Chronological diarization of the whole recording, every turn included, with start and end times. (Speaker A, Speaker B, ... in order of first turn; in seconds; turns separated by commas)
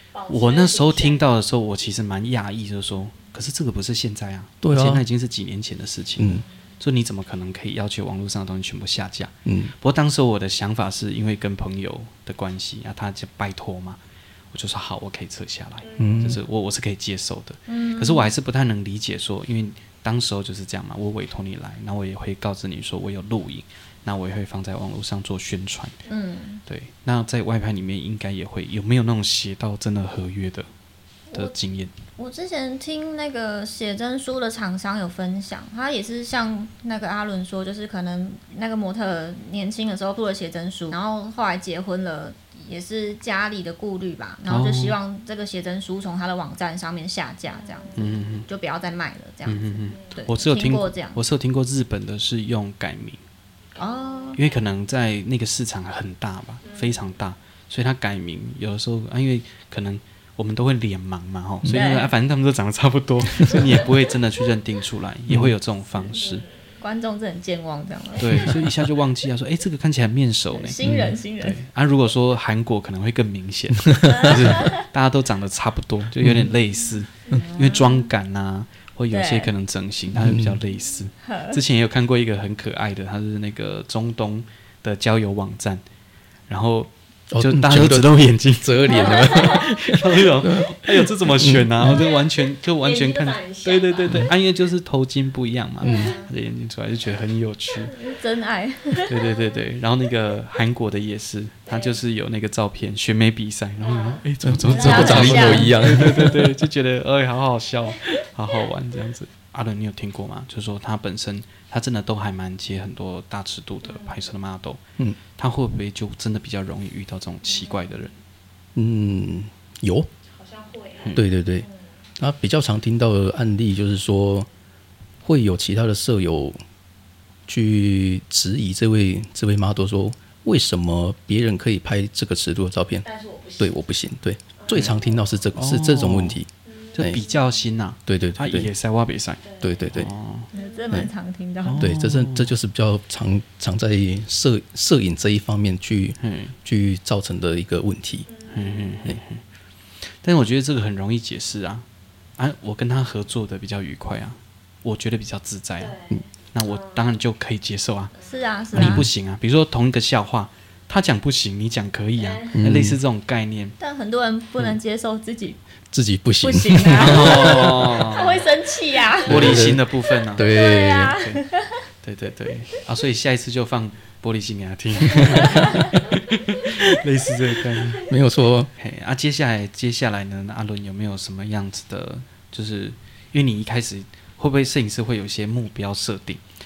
Speaker A: 0.1-1.2, Speaker B: 0.3-14.0, Speaker C: 4.6-5.0, Speaker C: 6.2-6.4, Speaker C: 9.4-9.7, Speaker B: 14.5-26.0, Speaker A: 15.8-16.2, Speaker C: 15.9-16.4, Speaker D: 17.7-18.3, Speaker D: 26.1-26.6, Speaker B: 26.6-30.7, Speaker D: 31.3-31.5, Speaker B: 31.3-31.9, Speaker D: 32.1-51.2, Speaker B: 44.5-45.0, Speaker A: 47.6-48.1, Speaker B: 47.9-48.5, Speaker B: 49.5-53.2, Speaker D: 53.8-54.4, Speaker A: 53.8-54.4, Speaker B: 54.3-66.4, Speaker A: 56.6-57.0, Speaker D: 61.7-62.1, Speaker C: 65.3-65.5, Speaker A: 66.0-66.8, Speaker D: 66.8-68.6, Speaker B: 68.2-85.8, Speaker C: 68.4-68.7, Speaker D: 70.5-71.6, Speaker C: 70.8-71.2, Speaker C: 74.1-74.5, Speaker D: 74.1-74.7, Speaker C: 76.2-76.5, Speaker D: 77.3-78.1, Speaker D: 79.1-79.5, Speaker C: 80.2-80.6, Speaker D: 81.2-81.6, Speaker B: 86.5-98.0, Speaker C: 87.3-92.0, Speaker A: 88.9-89.8, Speaker A: 91.9-92.2, Speaker A: 92.8-94.3, Speaker C: 95.8-96.2, Speaker A: 95.8-96.3, Speaker D: 97.9-99.2, Speaker B: 99.0-114.8, Speaker A: 99.2-99.6, Speaker A: 101.7-102.0, Speaker A: 103.8-104.2, Speaker C: 104.4-106.5, Speaker D: 104.6-105.8, Speaker A: 113.8-114.2, Speaker B: 115.4-118.2, Speaker C: 118.7-120.1, Speaker A: 120.2-121.9, Speaker C: 121.1-121.7, Speaker C: 122.2-124.5, Speaker C: 125.2-126.6, Speaker C: 127.5-133.0, Speaker A: 133.0-133.7, Speaker C: 133.6-137.2, Speaker A: 134.6-135.1, Speaker B: 134.7-135.0, Speaker B: 135.5-136.4, Speaker A: 136.6-137.4, Speaker B: 136.9-140.5, Speaker C: 138.1-138.7, Speaker A: 139.4-139.9, Speaker C: 139.6-140.1, Speaker A: 140.5-141.0, Speaker D: 140.5-141.9, Speaker B: 141.6-142.5, Speaker C: 141.8-148.3, Speaker B: 146.2-146.5, Speaker A: 148.3-149.1, Speaker B: 148.5-149.4, Speaker B: 150.0-151.8, Speaker B: 152.4-155.9, Speaker A: 155.8-157.1, Speaker B: 156.5-158.1, Speaker A: 158.1-158.6, Speaker D: 158.2-159.1, Speaker B: 158.7-163.8, Speaker C: 158.7-159.1, Speaker A: 162.2-162.6, Speaker C: 162.5-163.0, Speaker D: 163.8-165.6, Speaker C: 165.9-168.0, Speaker D: 166.4-169.6, Speaker B: 166.9-168.5, Speaker B: 169.2-170.6, Speaker A: 169.2-169.6, Speaker C: 169.2-171.2, Speaker D: 170.4-171.8, Speaker B: 171.1-171.4, Speaker B: 172.0-178.1, Speaker D: 175.4-175.8, Speaker C: 178.0-178.7, Speaker B: 178.8-186.4